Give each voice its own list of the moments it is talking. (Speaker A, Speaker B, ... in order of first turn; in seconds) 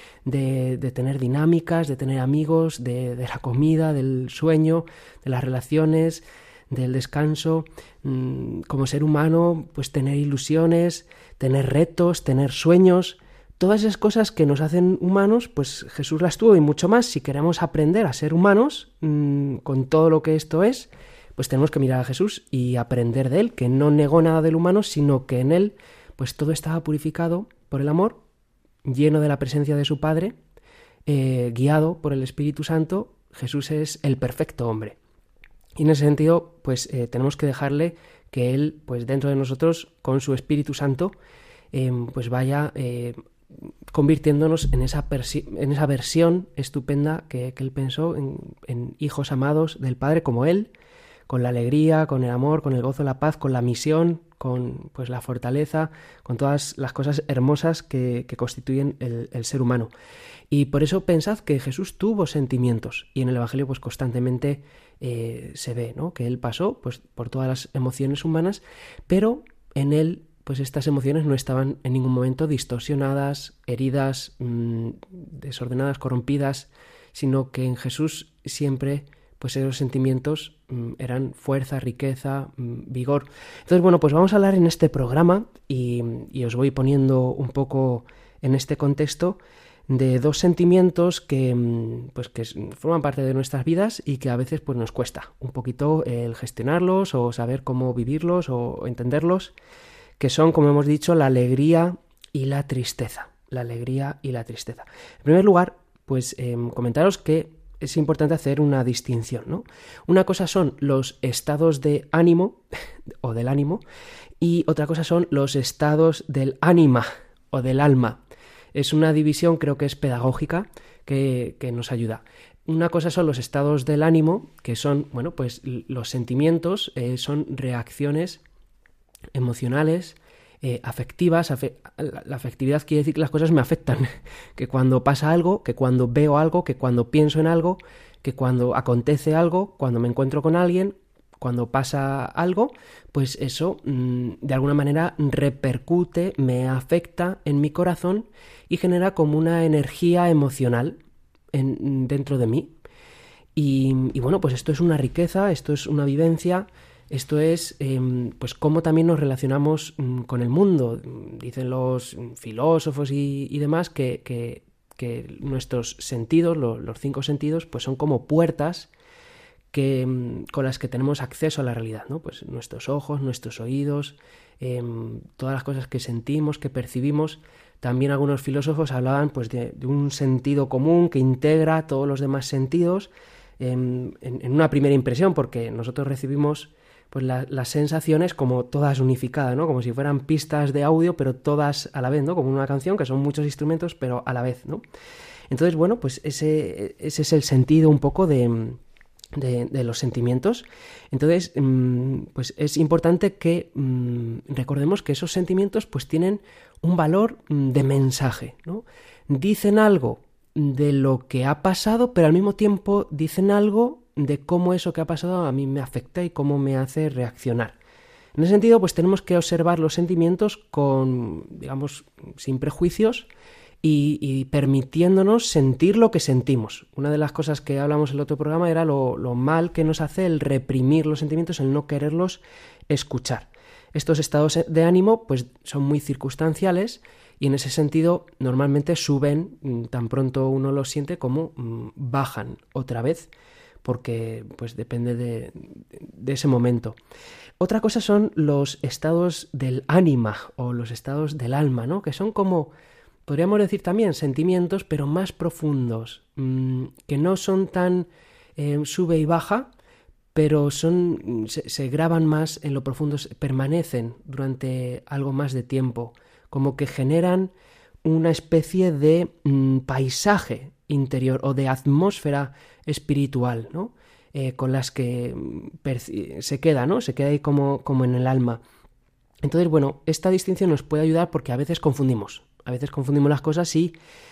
Speaker A: 0.2-28.2, 28.8-30.4, 31.1-35.0, 35.8-41.1, 41.7-43.2, 43.9-50.7, 51.3-59.9, 60.5-89.4, 89.9-99.5, 100.2-112.6, 113.2-113.8, 114.4-118.2, 118.7-128.4, 129.3-151.0, 151.5-152.7, 153.5-168.9, 169.7-194.8, 195.5-198.8, 199.3-217.7, 218.3-223.3, 223.8-243.3, 243.8-247.0, 247.6-252.7, 253.2-259.7, 260.3-267.5, 268.0-278.6, 279.4-283.9